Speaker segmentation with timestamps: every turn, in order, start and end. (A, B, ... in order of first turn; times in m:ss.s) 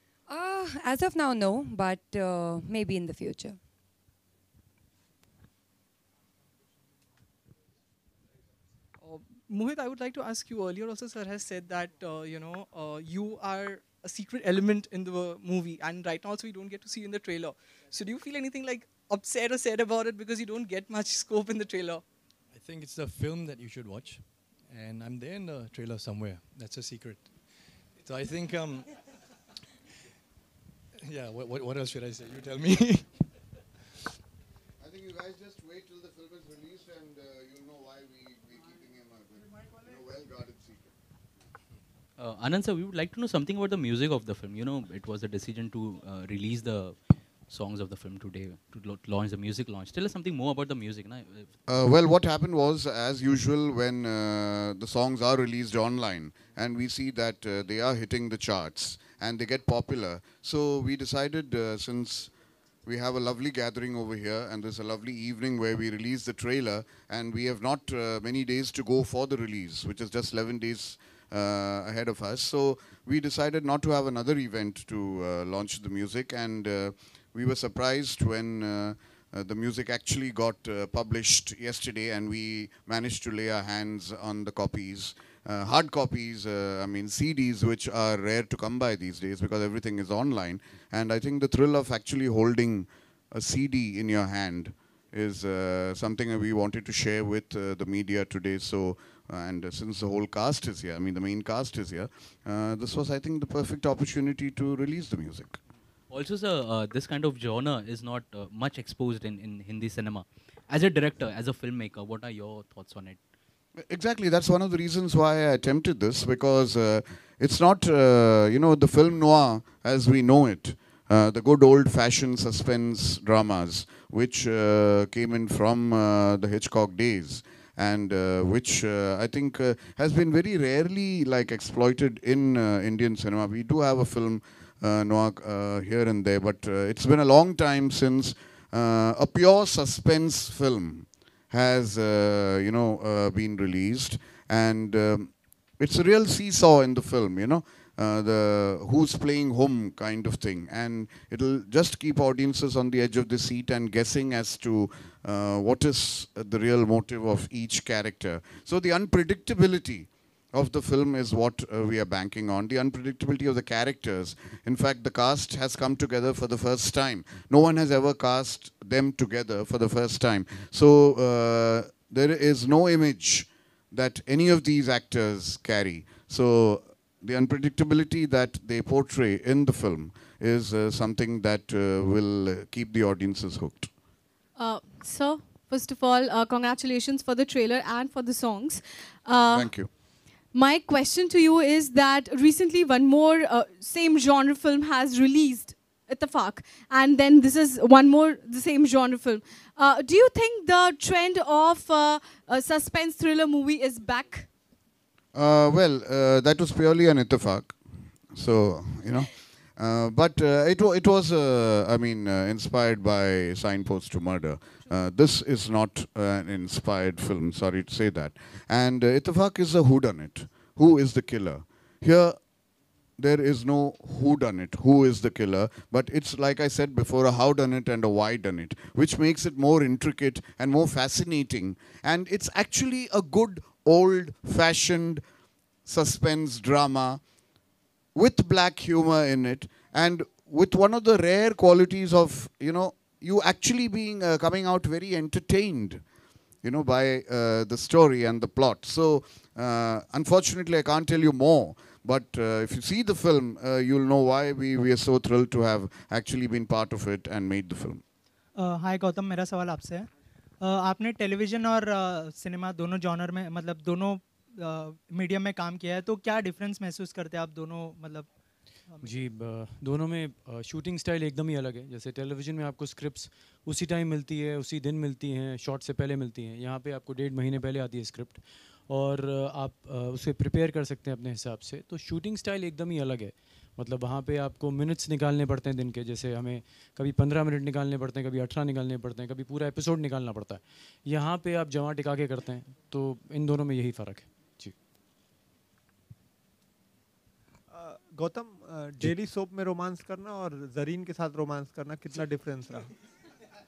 0:00.3-0:03.6 A
0:09.0-0:22.1 B
0:22.5-0:29.2 C
0:31.0-0:33.2 C
0:34.8-0:40.9 D
0:42.2-0:51.5 E
0:51.7-1:02.3 D
1:02.9-1:45.6 D
1:46.1-1:53.2 E
1:53.8-3:03.9 D
3:04.6-3:24.5 F
3:09.5-3:09.9 D
3:25.3-3:27.8 D
3:28.3-3:42.4 D
3:43.2-3:55.2 D
3:55.9-3:57.2 D
3:58.2-4:06.0 D
4:06.6-4:18.0 D
4:18.6-4:20.1 G
4:20.6-4:28.3 G
4:28.8-4:29.3 G
4:29.0-4:54.8 H
4:57.7-5:02.9 I